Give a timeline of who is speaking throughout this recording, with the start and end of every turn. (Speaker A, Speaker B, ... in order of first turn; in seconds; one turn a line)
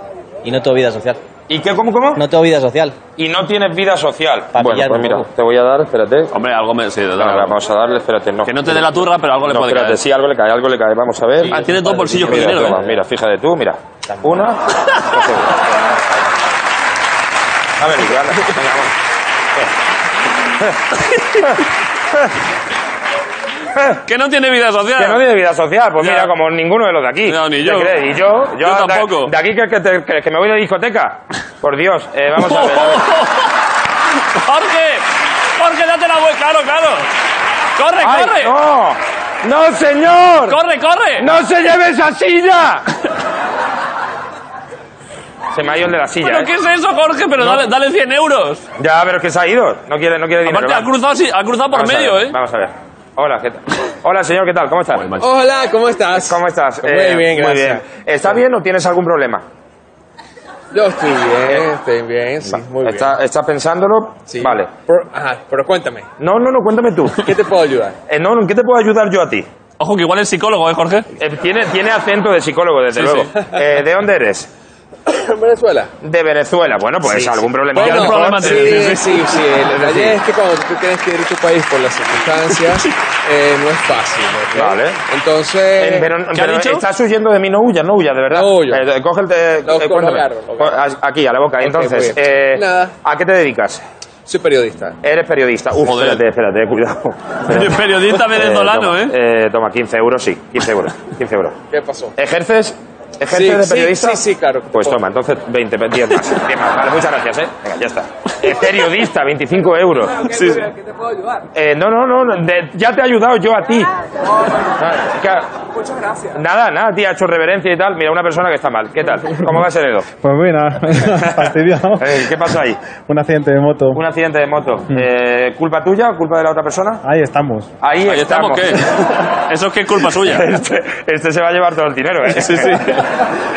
Speaker A: 0.4-1.2
Speaker B: 1.5-2.2
Speaker A: 2.2-3.0
Speaker B: 3.1-6.3
Speaker A: 4.5-5.3
Speaker C: 6.3-7.5
Speaker B: 7.2-8.8
Speaker C: 8.4-10.0
Speaker B: 9.4-15.7
Speaker C: 11.5-12.9
Speaker A: 11.5-12.8
Speaker A: 14.2-14.5
Speaker B: 17.8-18.9
Speaker B: 23.8-24.0
Speaker C: 24.1-25.2
Speaker B: 25.0-33.0
Speaker C: 26.0-26.3
Speaker C: 27.3-28.0
Speaker C: 28.6-29.3
Speaker C: 32.4-33.5
Speaker C: 34.4-35.1
Speaker C: 35.6-37.1
Speaker C: 37.8-38.5
Speaker B: 38.0-40.6
Speaker C: 40.5-41.3
Speaker B: 41.2-42.9
Speaker B: 45.5-46.5
Speaker C: 46.2-48.7
Speaker B: 48.8-50.9
Speaker C: 50.4-52.4
Speaker B: 51.7-55.1
Speaker C: 55.0-55.2
Speaker D: 55.2-57.8
Speaker B: 56.2-59.4
Speaker D: 60.7-63.1
Speaker B: 62.6-64.7
Speaker D: 64.3-66.1
Speaker B: 66.2-67.3
Speaker D: 67.2-68.0
Speaker B: 68.1-69.5
Speaker C: 69.8-71.1
Speaker B: 71.2-74.5
Speaker C: 72.9-73.3
Speaker D: 75.1-75.9
Speaker B: 76.0-78.9
Speaker D: 77.1-86.1
Speaker C: 77.7-79.4
Speaker B: 84.5-85.0
Speaker B: 85.8-93.8
Speaker C: 86.3-86.8
Speaker D: 88.3-88.8
Speaker D: 89.7-90.8
Speaker D: 91.6-92.9
Speaker D: 94.3-95.0
Speaker B: 95.0-101.6
Speaker C: 95.8-96.2
Speaker C: 97.5-99.2
Speaker D: 101.7-102.1
Speaker B: 102.2-110.6
Speaker D: 103.3-105.0
Speaker B: 111.5-113.9
Speaker B: 114.8-115.5
Speaker B: 116.3-120.1
Speaker E: 120.2-122.2
Speaker B: 122.0-122.8
Speaker E: 123.0-124.0
Speaker B: 123.9-127.0
Speaker E: 127.0-127.7
Speaker B: 127.8-129.1
Speaker C: 128.1-130.5
Speaker B: 130.1-133.1
Speaker C: 132.3-133.1